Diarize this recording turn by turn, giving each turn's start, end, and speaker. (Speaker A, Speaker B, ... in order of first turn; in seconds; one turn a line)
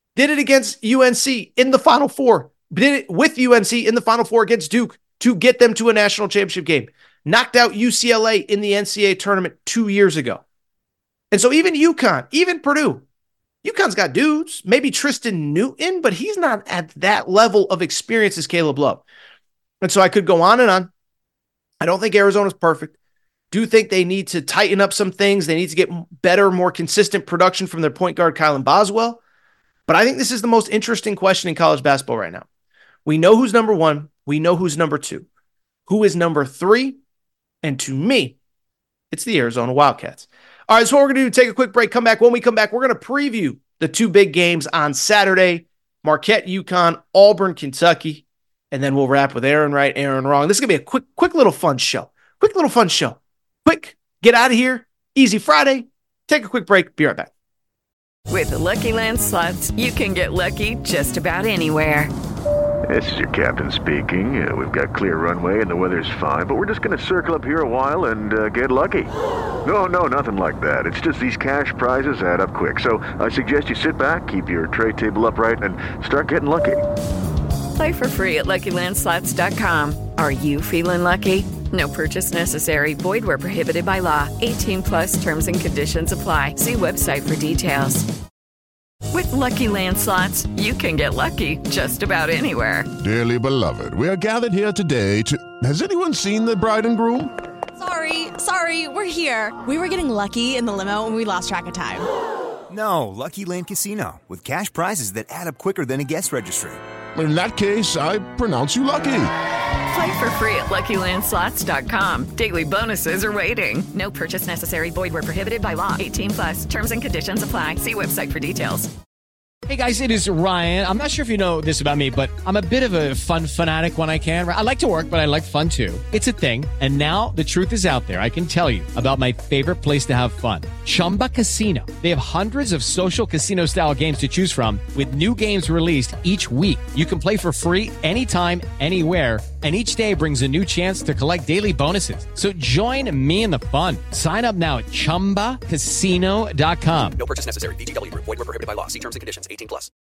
Speaker A: 0.2-10.4
Speaker A: 11.3-13.0
Speaker A: 13.6-19.0
Speaker A: 19.8-20.9
Speaker A: 21.8-23.0
Speaker A: 23.5-29.2
Speaker A: 29.9-32.5
Speaker A: 33.0-35.3
Speaker A: 35.9-37.0
Speaker A: 37.6-38.4
Speaker A: 39.1-57.3
Speaker B: 58.3-62.1
Speaker C: 62.9-69.1
Speaker C: 69.6-76.8
Speaker B: 77.8-88.1
Speaker B: 89.1-92.9
Speaker D: 93.0-97.3
Speaker E: 97.8-102.1
Speaker F: 102.7-106.8
Speaker D: 107.2-109.3
Speaker B: 109.9-118.9
Speaker G: 119.7-147.2
Speaker H: 147.2-149.9